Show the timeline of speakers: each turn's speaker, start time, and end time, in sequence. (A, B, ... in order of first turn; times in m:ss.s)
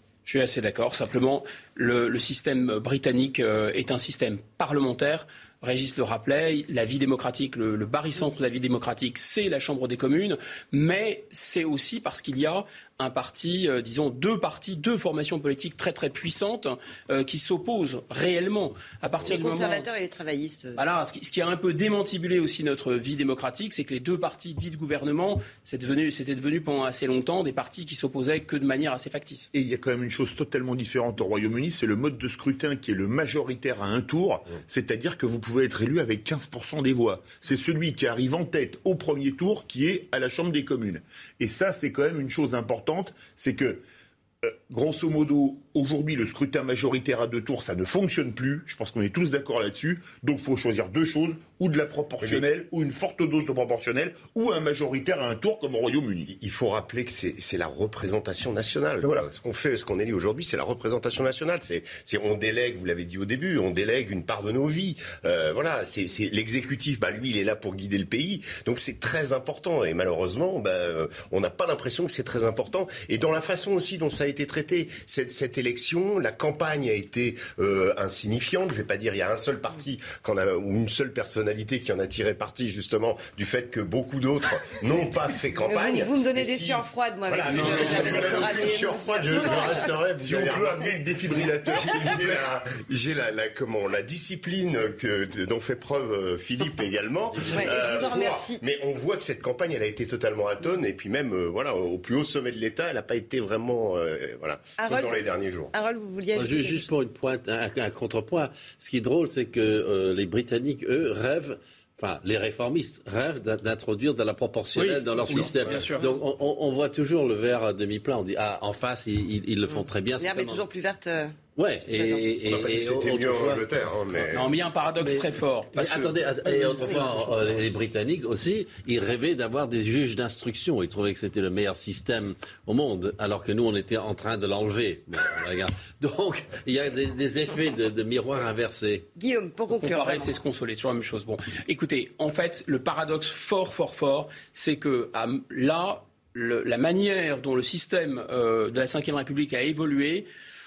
0:00.2-0:19.9 A
0:19.2-0:20.8 B
0:20.8-0:29.5 A
0:29.5-0:43.8 C
0:44.4-0:56.4 C
0:56.4-1:45.7 D
1:25.6-1:30.0 B
1:27.5-1:28.1 A
1:30.2-1:32.5 C
1:31.7-1:32.1 B
1:37.4-1:38.6 B
1:44.8-1:46.9 B
1:46.3-2:00.7 E
1:54.8-1:56.1 A
1:59.7-2:01.4 B
2:01.6-2:03.7 E
2:01.9-2:02.3 B
2:02.4-2:04.6 D
2:04.3-2:06.2 A
2:05.0-2:19.1 E
2:06.8-2:07.1 B
2:19.2-2:20.4 B
2:19.7-2:30.3 A